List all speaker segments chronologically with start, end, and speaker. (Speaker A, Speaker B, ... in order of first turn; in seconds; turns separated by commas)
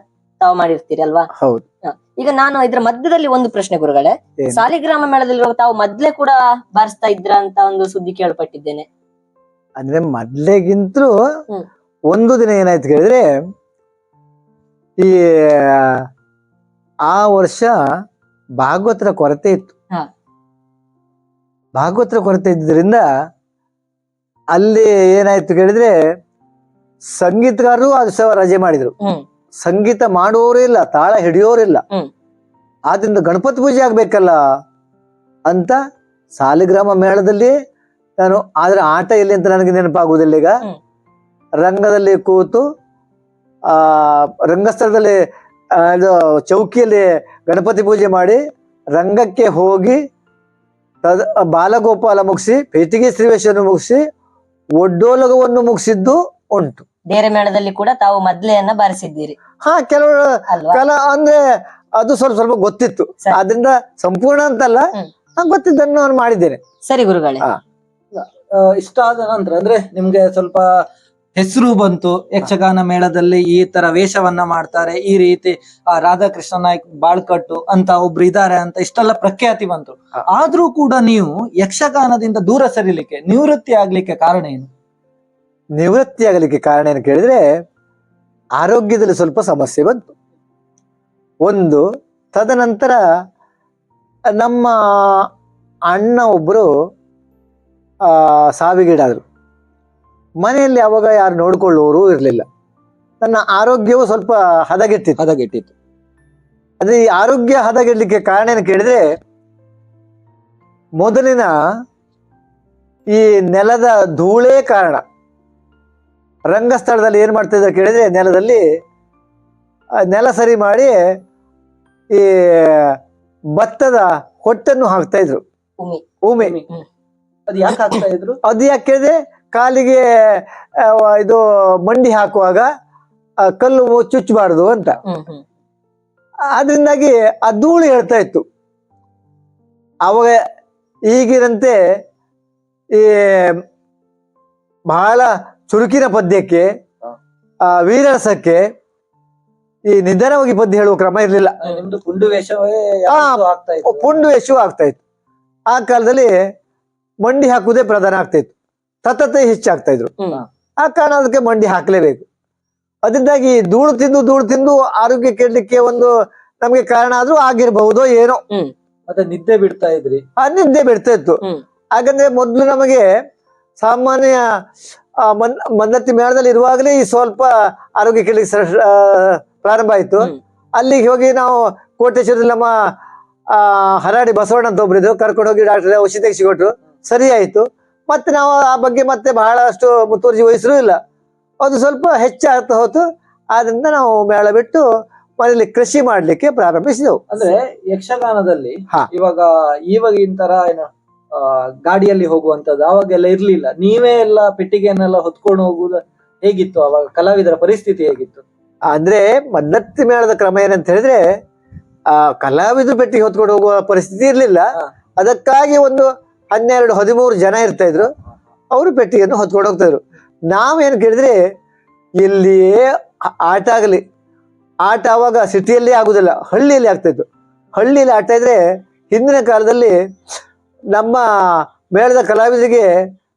Speaker A: 0.4-1.3, Speaker B: 1.4-1.6, Speaker A: 1.9-8.9, Speaker B: 4.4-4.6, Speaker B: 9.8-11.2, Speaker B: 12.1-13.3, Speaker B: 15.0-16.0, Speaker B: 17.1-17.8, Speaker B: 18.6-19.7, Speaker B: 21.8-23.1, Speaker B: 24.5-25.9, Speaker B: 27.2-28.9, Speaker B: 29.6-31.8, Speaker B: 32.9-34.4, Speaker B: 35.5-35.8, Speaker B: 36.4-37.5, Speaker B: 38.2-40.6, Speaker B: 41.6-42.6, Speaker B: 43.7-45.2, Speaker B: 45.7-48.4, Speaker B: 49.0-50.0, Speaker B: 51.0-54.0, Speaker B: 54.8-56.9, Speaker A: 57.1-59.4, Speaker B: 59.6-61.4, Speaker A: 60.5-60.8, Speaker B: 62.0-66.6, Speaker A: 66.9-67.5, Speaker C: 68.2-70.8, Speaker C: 71.4-84.7, Speaker B: 85.8-87.4, Speaker B: 88.6-90.1, Speaker B: 91.4-93.0, Speaker B: 94.3-95.3, Speaker B: 95.9-96.7, Speaker B: 98.1-99.2, Speaker B: 100.4-102.5, Speaker B: 103.2-105.2, Speaker C: 105.2-105.7, Speaker B: 106.8-109.0, Speaker B: 111.0-111.5, Speaker B: 113.1-115.0, Speaker B: 116.5-118.7, Speaker B: 120.0-121.0, Speaker B: 122.1-123.0, Speaker B: 123.6-125.4, Speaker B: 126.2-126.6, Speaker C: 126.4-126.6, Speaker C: 127.5-128.4, Speaker B: 128.4-132.7, Speaker B: 133.4-135.0, Speaker A: 135.1-135.4, Speaker B: 136.5-138.4, Speaker B: 140.1-140.4, Speaker B: 141.1-141.8, Speaker B: 142.9-143.6, Speaker B: 144.9-146.7, Speaker B: 147.7-148.7, Speaker B: 149.9-151.6, Speaker C: 151.6-154.2, Speaker B: 153.1-155.0, Speaker B: 155.7-156.4, Speaker B: 157.2-158.5, Speaker B: 159.0-160.1, Speaker B: 160.8-162.3, Speaker B: 163.0-168.4, Speaker C: 169.1-170.2, Speaker B: 170.4-171.4, Speaker B: 171.9-173.1, Speaker B: 173.8-174.5, Speaker B: 175.2-182.8, Speaker B: 183.5-191.0, Speaker B: 191.6-194.9, Speaker B: 195.4-197.2, Speaker C: 197.3-208.4, Speaker B: 208.9-211.2, Speaker B: 212.1-218.1, Speaker B: 218.7-221.4, Speaker B: 222.2-224.0, Speaker B: 224.8-230.0, Speaker B: 230.9-232.9